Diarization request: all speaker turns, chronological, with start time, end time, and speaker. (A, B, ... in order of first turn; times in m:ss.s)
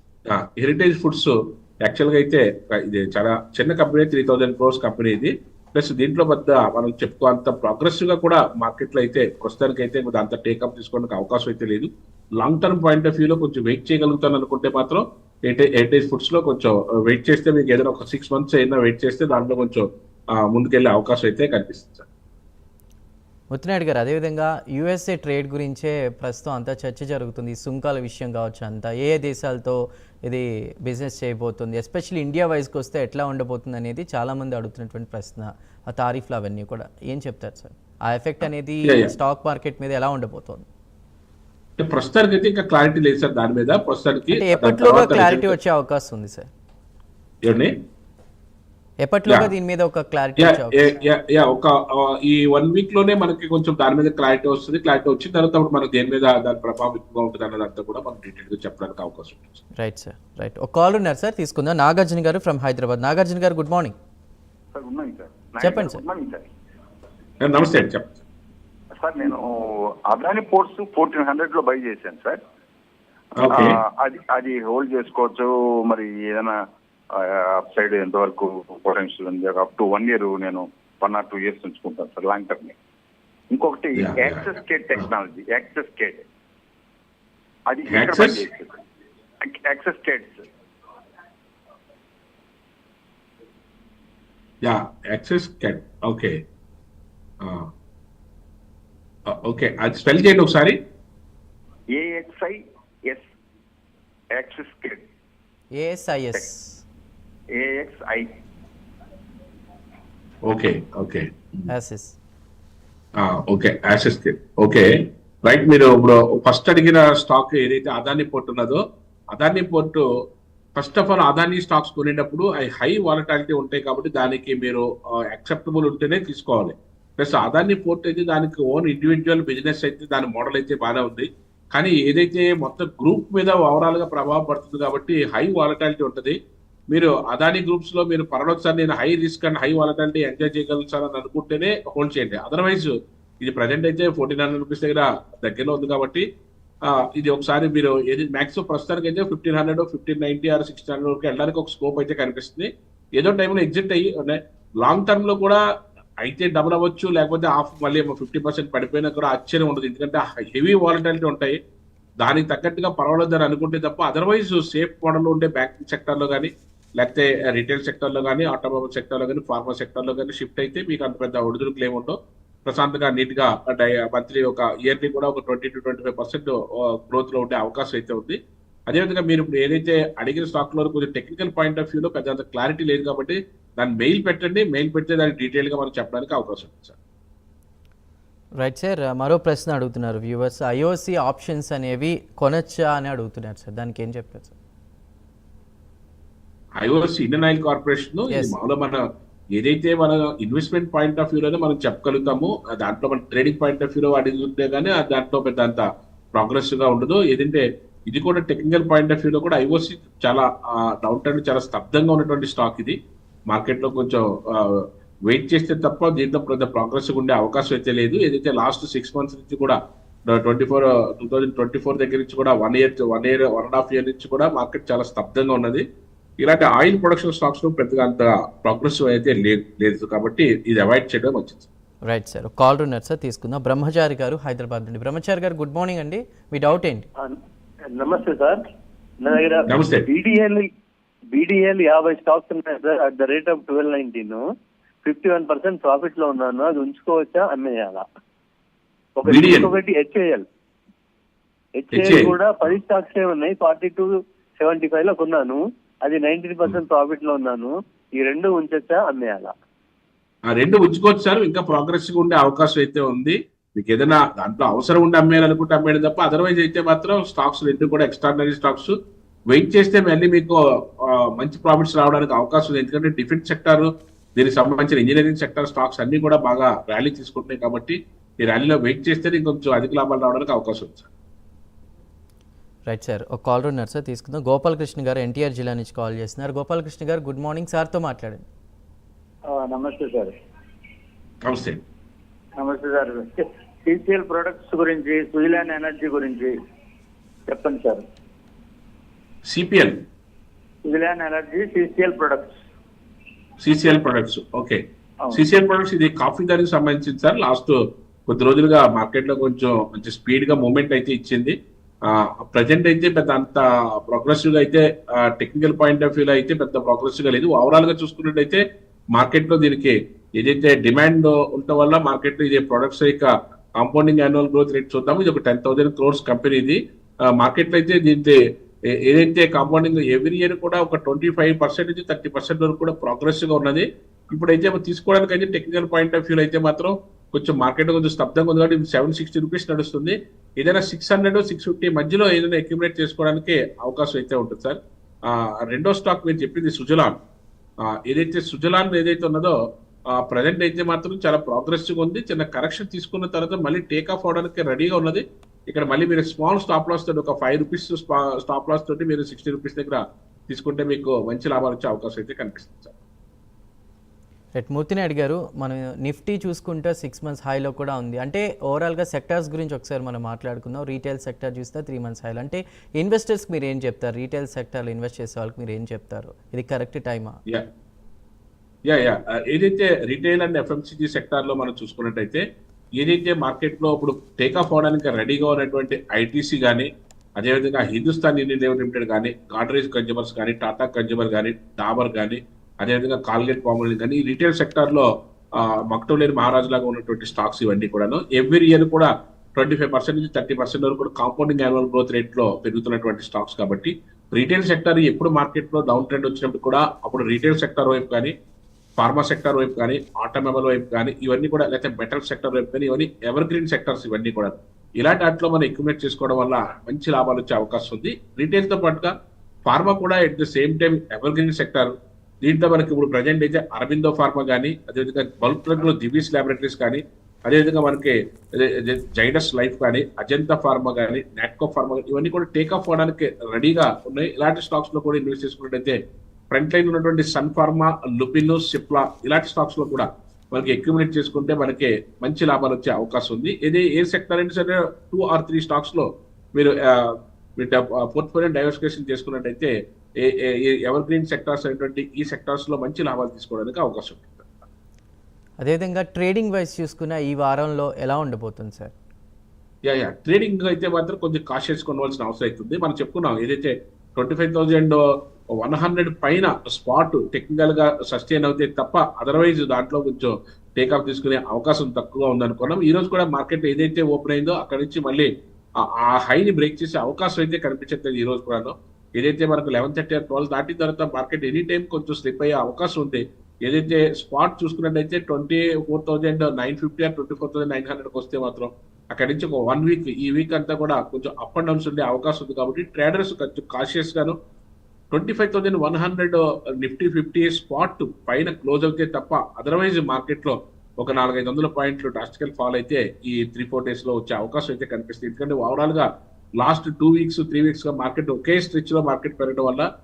0:00.3-0:22.0 A
0:23.5-0:40.6 B
0:38.8-0:39.1 A
0:41.8-0:45.5 A
0:44.3-0:46.5 B
0:47.4-0:47.7 A
0:49.0-0:51.0 B
0:50.4-0:59.6 A
0:59.8-1:03.9 B
1:04.7-1:06.5 C
1:05.6-1:06.0 B
1:07.4-1:08.1 A
1:09.0-1:12.4 C
1:13.4-1:16.6 C
1:13.4-1:13.8 A
1:17.1-1:22.7 C
1:23.5-1:26.2 C
1:24.0-1:24.4 A
1:27.7-1:28.7 C
1:27.9-1:28.5 A
1:29.4-1:30.5 C
1:34.6-1:36.4 A
1:37.4-1:37.7 A
1:39.3-1:40.8 A
1:41.9-1:43.3 C
1:44.3-1:45.0 C
1:45.7-1:46.8 B
1:47.5-1:48.3 C
1:50.5-1:51.6 A
1:51.7-1:52.1 B
1:53.2-1:54.9 A
1:55.4-1:58.8 A
1:59.3-2:00.0 A
2:00.8-2:16.4 A
2:16.9-2:22.9 A
2:23.4-2:26.2 A
2:26.9-2:35.6 A
2:36.2-2:41.6 A
2:42.2-2:58.4 A
2:58.9-3:07.0 A
3:08.6-3:14.5 B
3:16.8-3:19.0 A
3:18.3-3:18.6 B
3:19.6-3:25.8 A
3:26.4-3:33.0 A
3:33.5-3:45.8 A
3:46.4-3:51.6 A
3:52.0-3:57.0 B
3:57.9-3:58.6 D
3:59.2-4:00.7 D
3:59.7-4:00.0 A
4:01.3-4:04.4 D
4:05.0-4:08.0 D
4:09.2-4:10.4 D
4:09.2-4:09.7 A
4:11.8-4:19.5 D
4:11.9-4:12.3 A
4:20.5-4:28.9 A
4:29.5-4:41.1 A
4:42.9-4:48.4 B
4:49.5-4:50.3 E
4:51.4-4:51.8 A
4:52.6-4:56.6 E
4:57.5-4:58.0 E
4:59.4-5:00.0 A
5:00.9-5:02.6 E
5:03.6-5:04.8 A
5:05.3-5:11.6 A
5:12.1-5:18.6 A
5:19.1-5:28.4 A
5:29.0-5:47.2 A
5:47.8-5:49.6 A
5:50.1-6:03.0 A
6:04.6-6:17.4 B
6:18.8-6:22.4 A
6:23.0-6:35.1 A
6:35.6-6:48.3 A
6:49.0-6:59.1 A
6:59.6-7:16.0 A
7:16.5-7:34.5 A
7:35.6-7:38.9 B
7:39.8-7:45.0 A
7:45.5-8:14.4 A
8:15.1-8:29.9 A